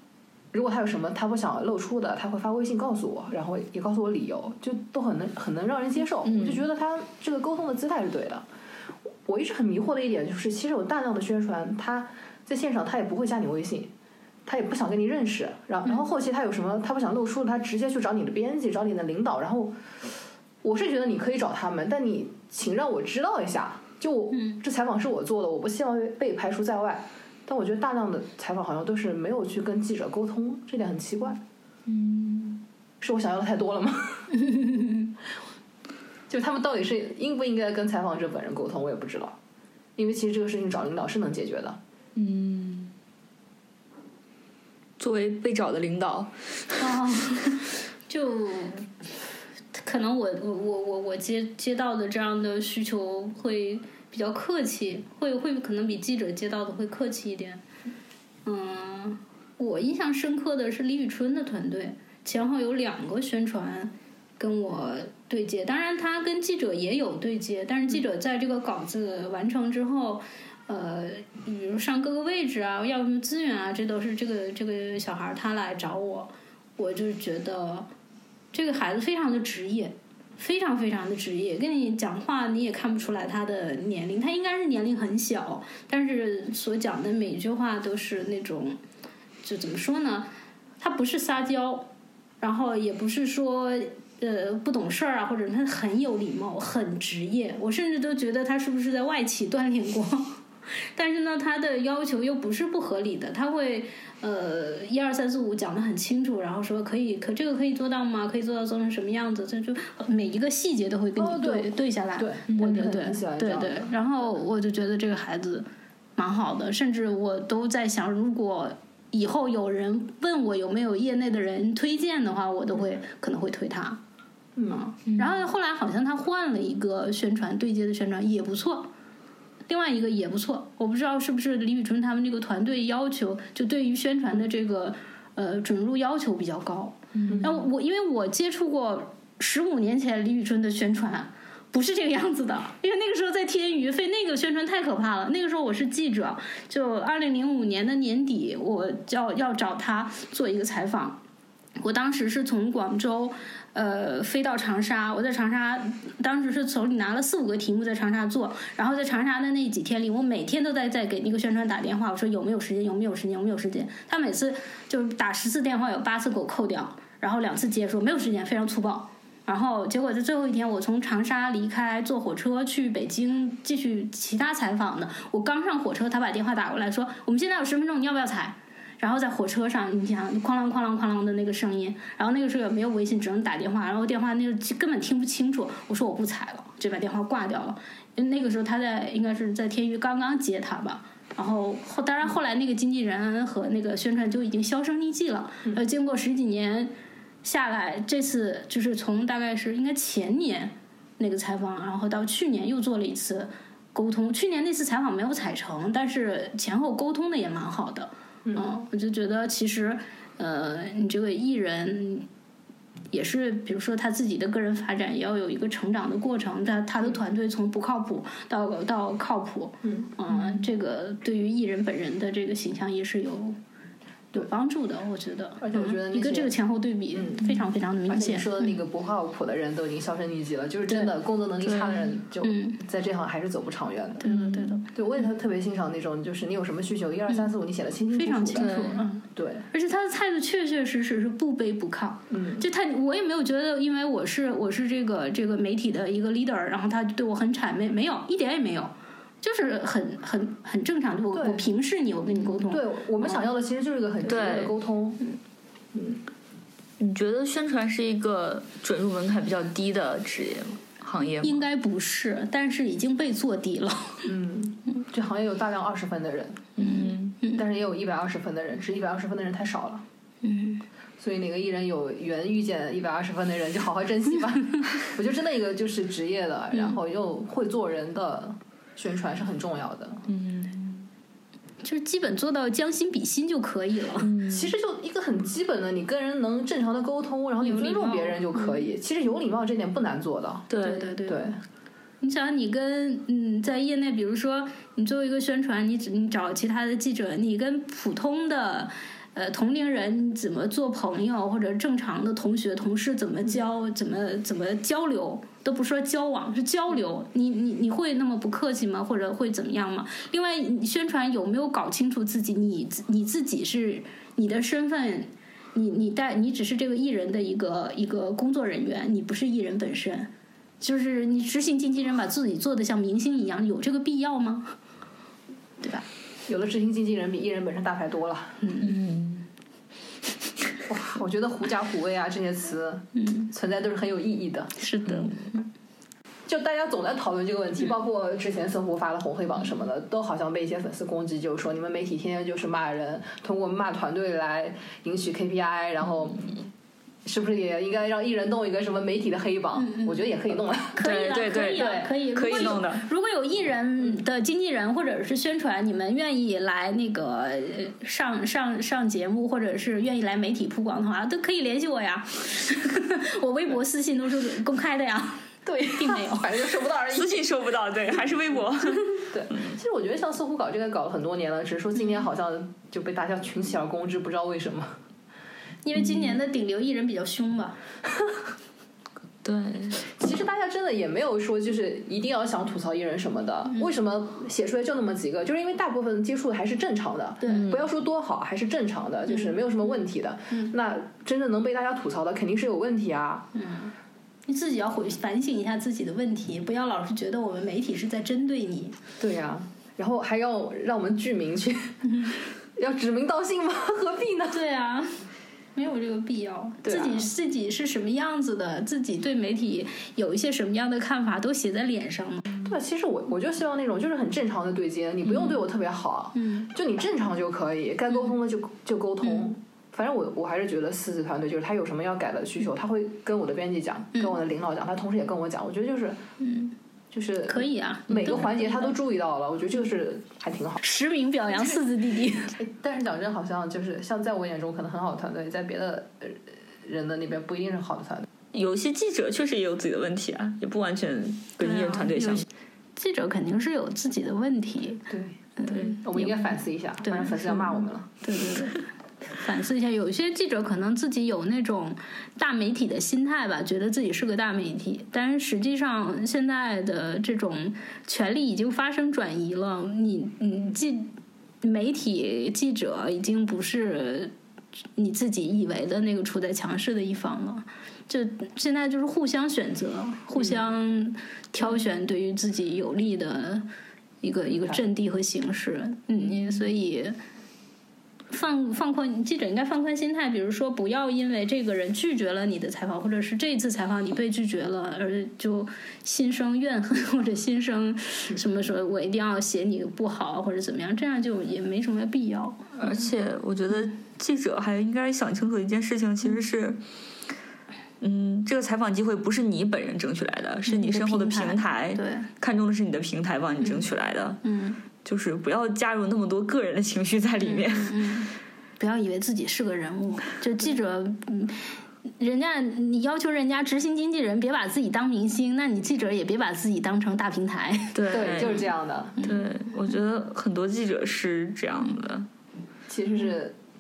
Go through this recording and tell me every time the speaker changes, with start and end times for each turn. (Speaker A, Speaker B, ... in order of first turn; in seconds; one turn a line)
Speaker A: 0.5-8.5
Speaker B: 6.2-6.6
Speaker A: 9.3-13.9
Speaker A: 14.5-19.8
Speaker A: 20.6-31.4
Speaker C: 24.3-24.6
Speaker B: 31.9-32.6
Speaker A: 33.0-34.3
Speaker C: 34.3-35.1
Speaker A: 36.3-39.4
Speaker A: 40.0-41.8
Speaker B: 42.2-42.9
Speaker B: 45.0-46.3
Speaker C: 46.8-48.9
Speaker C: 49.8-57.6
Speaker C: 58.5-77.9
Speaker C: 78.5-88.8
Speaker C: 89.4-91.9
Speaker C: 92.4-100.3
Speaker C: 100.9-124.0
Speaker A: 111.2-114.3
Speaker B: 112.5-112.8
Speaker A: 124.6-124.9
Speaker C: 124.7-128.9
Speaker B: 125.1-125.4
Speaker C: 129.7-151.2
Speaker B: 137.2-137.5
Speaker A: 137.3-137.7
Speaker C: 151.8-196.9
Speaker C: 197.4-212.3
Speaker C: 213.1-223.6
Speaker A: 219.8-220.1
Speaker B: 220.3-220.6
Speaker C: 224.3-228.7
Speaker A: 225.6-226.5
Speaker A: 227.1-227.5
Speaker A: 228.1-234.2
Speaker C: 230.9-231.1
Speaker B: 231.6-232.1
Speaker C: 232.4-232.8
Speaker C: 234.2-234.9
Speaker B: 234.2-234.8
Speaker A: 234.9-238.7
Speaker C: 238.2-253.4
Speaker B: 238.6-239.0
Speaker A: 239.3-239.7
Speaker A: 242.3-242.7
Speaker A: 251.3-251.7
Speaker A: 252.7-255.2
Speaker B: 254.3-254.8
Speaker A: 255.9-256.2
Speaker B: 257.0-261.6
Speaker C: 261.4-264.3
Speaker A: 264.2-266.7
Speaker B: 266.8-267.4
Speaker C: 266.8-267.6
Speaker A: 267.6-270.1
Speaker C: 270.4-270.8
Speaker A: 271.2-280.3
Speaker B: 280.3-281.1
Speaker C: 281.8-284.3
Speaker B: 284.2-284.8
Speaker A: 284.5-290.7
Speaker C: 287.6-288.8
Speaker B: 290.7-291.1
Speaker C: 290.8-291.5
Speaker A: 291.3-291.6
Speaker C: 292.2-324.8
Speaker C: 325.8-326.1
Speaker A: 326.5-328.6
Speaker C: 328.6-328.9
Speaker B: 328.8-329.5
Speaker A: 330.9-334.7
Speaker C: 333.1-333.5
Speaker C: 334.8-335.6
Speaker B: 335.1-335.4
Speaker A: 336.5-346.5
Speaker A: 347.2-351.0
Speaker C: 349.8-350.2
Speaker C: 351.0-366.5
Speaker B: 351.0-353.0
Speaker A: 351.8-352.8
Speaker A: 365.7-367.5
Speaker B: 367.1-369.7
Speaker A: 369.3-375.0
Speaker C: 375.8-377.8
Speaker B: 379.4-380.0
Speaker A: 380.1-393.5
Speaker C: 387.4-387.7
Speaker B: 387.5-387.8
Speaker C: 389.3-389.9
Speaker C: 393.6-393.9
Speaker C: 394.5-399.0
Speaker A: 399.2-404.6
Speaker C: 404.5-412.5
Speaker A: 406.8-407.3
Speaker A: 412.6-426.2
Speaker C: 416.4-416.7
Speaker C: 419.2-419.5
Speaker C: 426.4-426.7
Speaker A: 427.1-430.8
Speaker C: 427.5-428.9
Speaker C: 430.8-432.6
Speaker A: 432.6-438.3
Speaker B: 438.5-442.5
Speaker C: 441.6-445.1
Speaker A: 445.1-448.1
Speaker C: 445.6-464.3
Speaker B: 445.7-445.9
Speaker C: 465.0-473.7
Speaker C: 474.2-477.2
Speaker A: 474.5-474.8
Speaker C: 478.3-493.0
Speaker B: 492.8-496.8
Speaker B: 498.0-504.4
Speaker C: 500.7-502.3
Speaker C: 503.6-503.9
Speaker C: 504.4-504.8
Speaker B: 505.0-508.0
Speaker C: 507.4-518.7
Speaker B: 518.0-518.6
Speaker A: 518.1-519.2
Speaker C: 519.2-519.5
Speaker B: 519.2-522.3
Speaker A: 522.9-523.6